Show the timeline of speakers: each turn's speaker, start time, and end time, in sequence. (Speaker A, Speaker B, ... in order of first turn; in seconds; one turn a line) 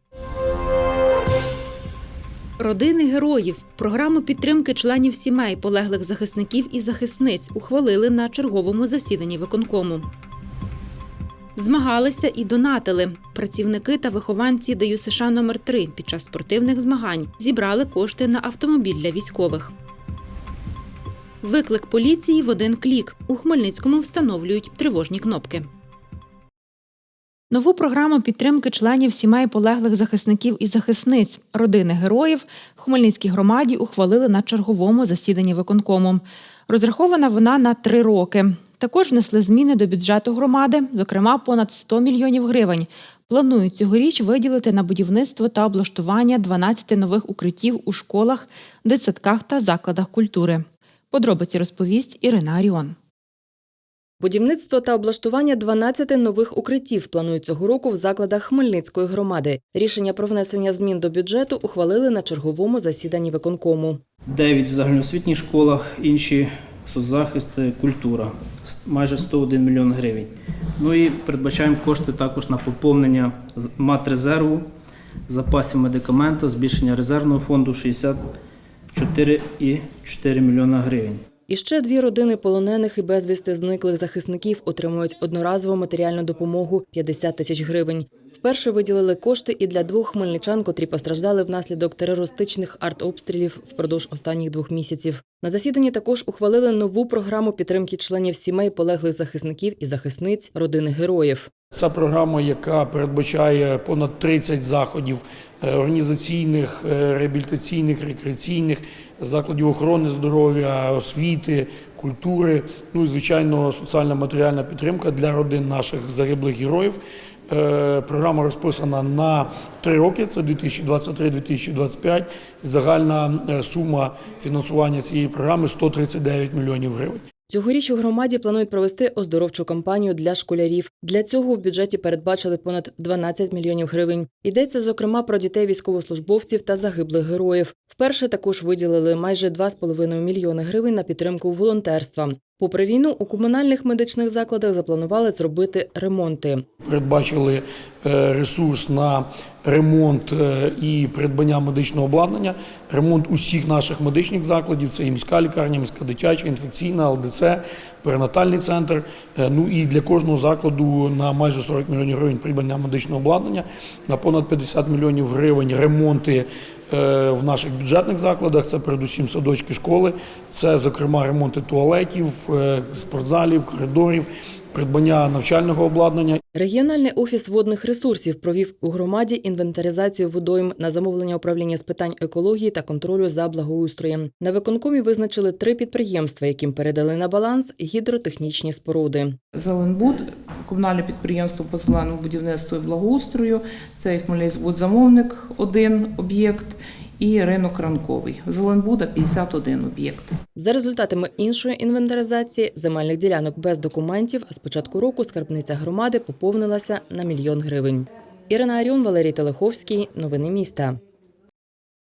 Speaker A: 2.6-10.1
Speaker A: 11.6-19.7
Speaker A: 21.4-25.7
Speaker A: 27.5-53.0
Speaker B: 54.3-64.0
Speaker C: 64.3-74.7
Speaker C: 75.3-78.2
Speaker C: 78.9-81.2
Speaker B: 81.5-101.5
Speaker D: 101.7-127.2
Speaker B: 127.5-146.6
Speaker D: 146.8-176.4
Speaker B: 176.6-189.3
Speaker E: 189.5-200.3
Speaker B: 200.6-210.9